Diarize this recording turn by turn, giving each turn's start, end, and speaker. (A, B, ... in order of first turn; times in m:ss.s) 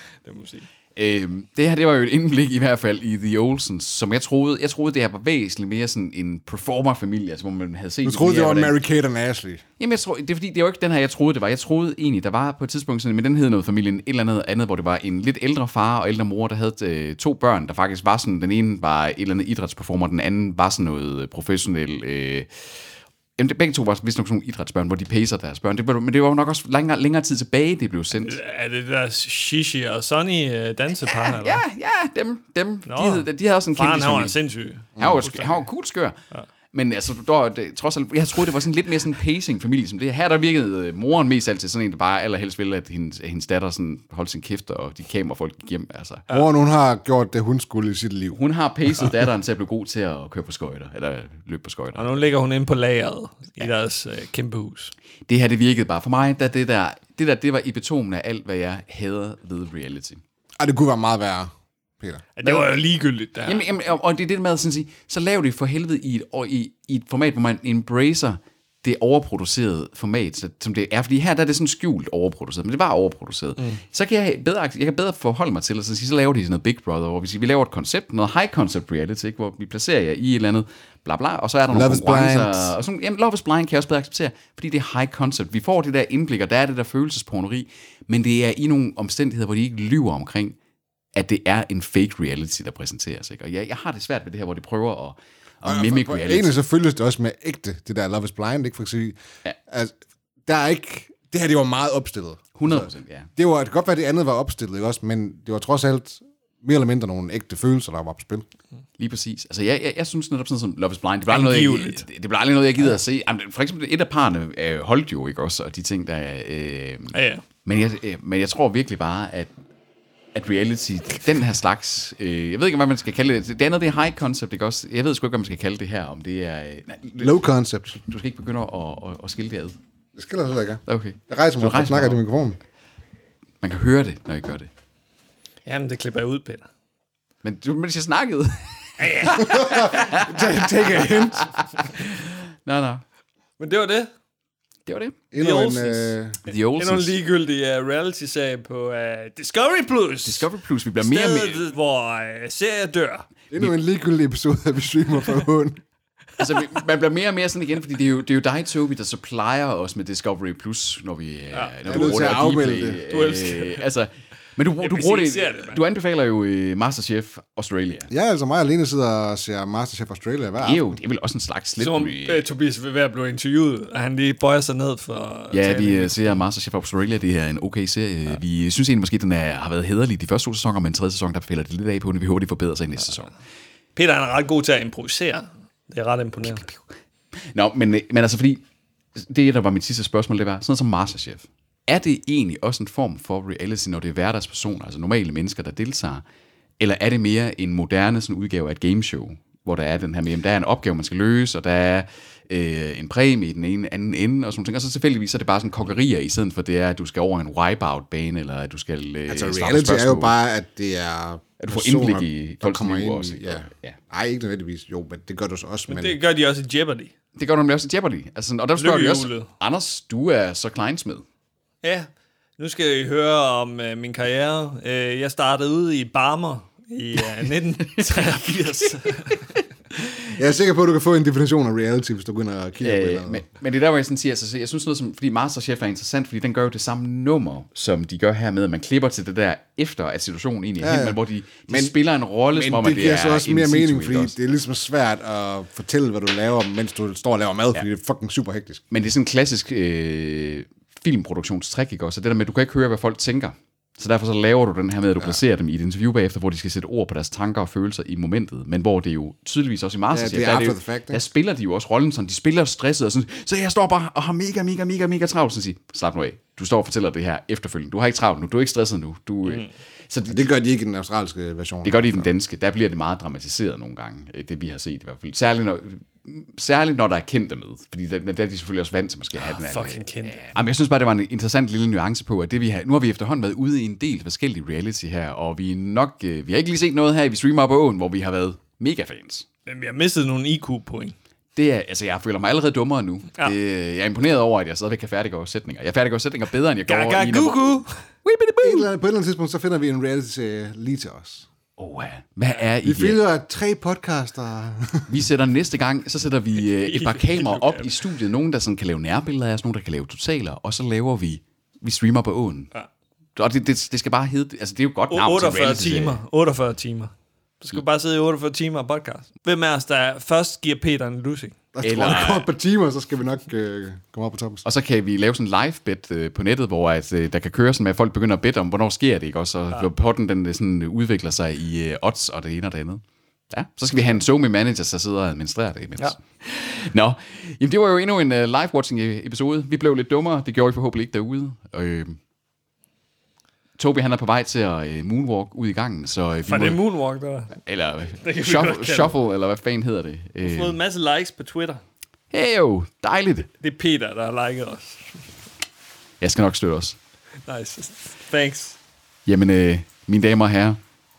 0:00.2-0:00.7 A
0:00.9-0:08.8 B
0:08.0-0:09.6 C
0:09.8-0:22.6 B
0:23.4-0:28.4 B
0:28.2-0:31.6 A
0:31.1-0:34.4 B
0:32.8-0:35.5 A
0:35.0-0:35.3 C
0:35.0-0:36.2 B
0:36.7-0:46.2 B
0:46.3-0:48.4 C
0:48.3-0:52.1 B
0:51.9-0:54.9 A
0:55.3-1:00.2 B
1:00.6-1:02.3 C
1:02.4-1:03.7 A
1:02.4-1:02.7 B
1:03.4-1:30.6 B
1:21.7-1:22.7 C
1:31.1-1:36.6 B
1:35.6-1:39.2 C
1:39.7-1:39.9 C
1:40.4-1:48.4 C
1:42.6-1:43.3 B
1:49.0-1:59.5 B
1:51.3-1:52.0 A
1:57.1-1:57.4 A
2:00.3-2:07.4 B
2:07.2-2:08.0 C
2:08.1-2:09.8 B
2:10.2-2:12.6 C
2:10.9-2:12.2 B
2:13.6-2:14.7 B
2:15.6-2:16.7 A
2:17.4-2:23.0 B
2:19.0-2:19.6 A
2:19.4-2:21.5 C
2:23.6-2:24.1 A
2:24.8-2:25.2 B
2:25.3-2:26.4 C
2:25.3-2:30.5 A
2:26.4-2:27.1 B
2:30.2-2:31.6 B
2:31.0-2:33.3 A
2:33.5-2:35.8 C
2:36.4-2:48.1 B
2:41.8-2:43.2 C
2:43.1-2:43.9 A
2:44.8-2:45.8 A
2:48.1-2:51.0 C
2:50.6-2:52.4 B
2:51.8-2:56.4 A
2:55.5-3:03.3 B
3:03.9-3:06.7 A
3:06.4-3:06.8 B
3:07.5-3:08.6 B
3:09.2-3:16.2 B
3:16.8-3:30.3 B
3:29.3-3:36.2 C
3:31.6-3:34.0 B
3:35.9-3:37.1 A
3:37.4-3:41.2 B
3:38.8-3:39.5 A
3:41.8-3:49.5 A
3:47.9-3:48.7 B
3:50.4-3:53.4 C
3:52.8-4:04.3 B
4:00.8-4:01.9 C
4:02.5-4:08.8 C
4:08.9-4:30.5 B
4:20.1-4:21.2 C
4:30.3-4:32.3 C
4:31.8-4:49.4 B
4:39.4-4:40.5 A
4:49.6-4:51.2 A
4:51.6-4:58.9 B
4:56.9-4:57.9 A
4:58.6-5:01.5 C
5:01.8-5:03.2 B
5:02.8-5:05.1 C
5:05.1-5:12.7 B
5:06.8-5:07.9 A
5:13.4-5:16.2 B
5:15.1-5:21.6 A
5:21.7-5:24.6 C
5:21.8-5:22.5 B
5:24.6-5:42.2 B
5:43.8-5:46.8 B
5:46.4-5:47.6 A
5:47.5-5:50.8 B
5:48.1-5:49.2 A
5:50.4-5:51.8 A
5:52.3-5:53.5 B
5:53.6-5:55.2 A
5:56.2-5:57.0 B
5:57.5-5:58.8 A
5:59.2-6:00.8 B